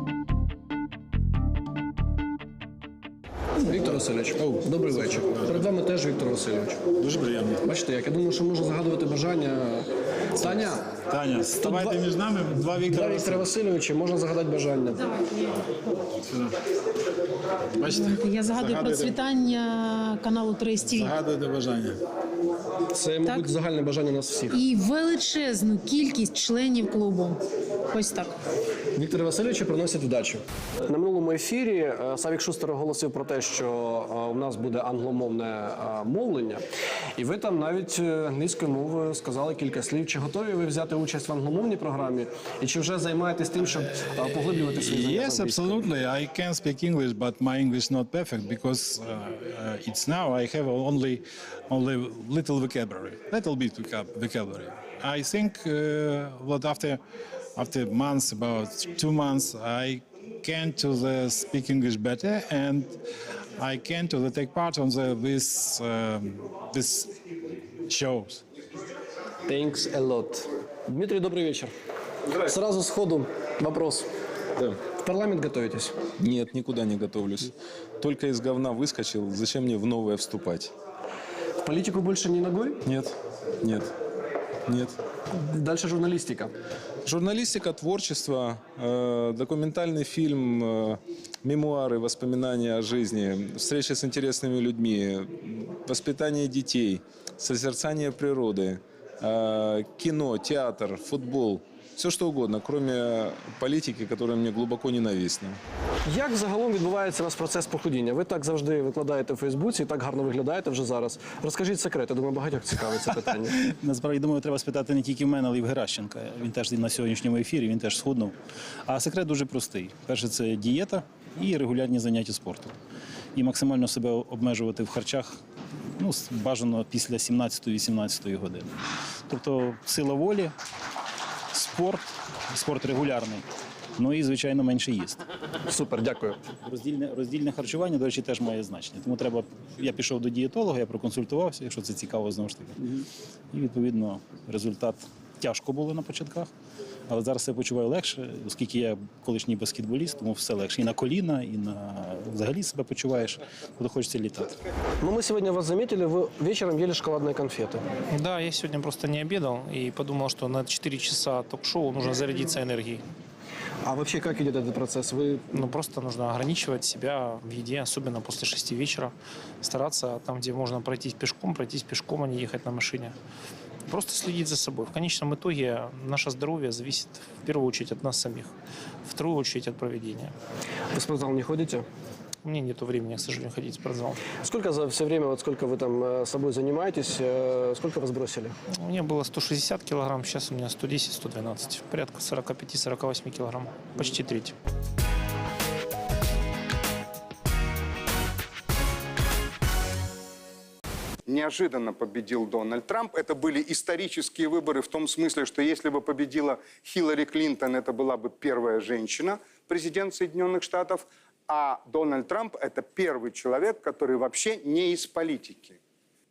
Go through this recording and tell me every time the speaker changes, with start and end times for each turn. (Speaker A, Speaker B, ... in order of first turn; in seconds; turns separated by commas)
Speaker A: 3.6-6.8, Speaker B: 4.9-5.7, Speaker B: 7.0-7.6, Speaker A: 7.6-10.9, Speaker B: 10.4-13.5, Speaker A: 11.6-12.1, Speaker A: 12.8-15.1, Speaker B: 16.2-16.5, Speaker B: 17.8-19.2, Speaker C: 17.9-21.1, Speaker B: 20.8-22.0, Speaker A: 22.9-24.6, Speaker C: 23.2-23.5, Speaker C: 24.5-27.4, Speaker C: 27.9-28.3, Speaker A: 28.9-36.6, Speaker A: 37.2-45.9, Speaker B: 44.7-57.0, Speaker B: 57.6-63.0, Speaker B: 63.6-67.2, Speaker B: 67.9-68.4, Speaker A: 69.5-71.7, Speaker A: 72.4-74.1, Speaker A: 74.9-76.0, Speaker D: 76.2-80.7, Speaker A: 81.6-82.8, Speaker D: 82.8-83.9, Speaker D: 84.7-85.0, Speaker A: 85.3-86.5, Speaker D: 87.0-105.6, Speaker A: 106.1-113.6, Speaker E: 113.7-118.3, Speaker E: 118.9-122.8, Speaker E: 123.3-125.4, Speaker E: 126.0-128.8, Speaker E: 129.3-130.5, Speaker E: 131.5-133.4, Speaker E: 134.0-135.2, Speaker A: 135.7-136.4, Speaker E: 136.7-143.0, Speaker E: 143.5-146.5, Speaker E: 147.1-154.6, Speaker A: 155.0-157.8, Speaker F: 158.1-163.0, Speaker A: 163.8-165.6, Speaker F: 165.5-173.2, Speaker F: 173.9-178.5, Speaker F: 179.1-180.3, Speaker A: 180.9-181.9, Speaker F: 182.4-184.2, Speaker A: 184.4-188.6, Speaker F: 188.7-194.5, Speaker G: 201.3-215.8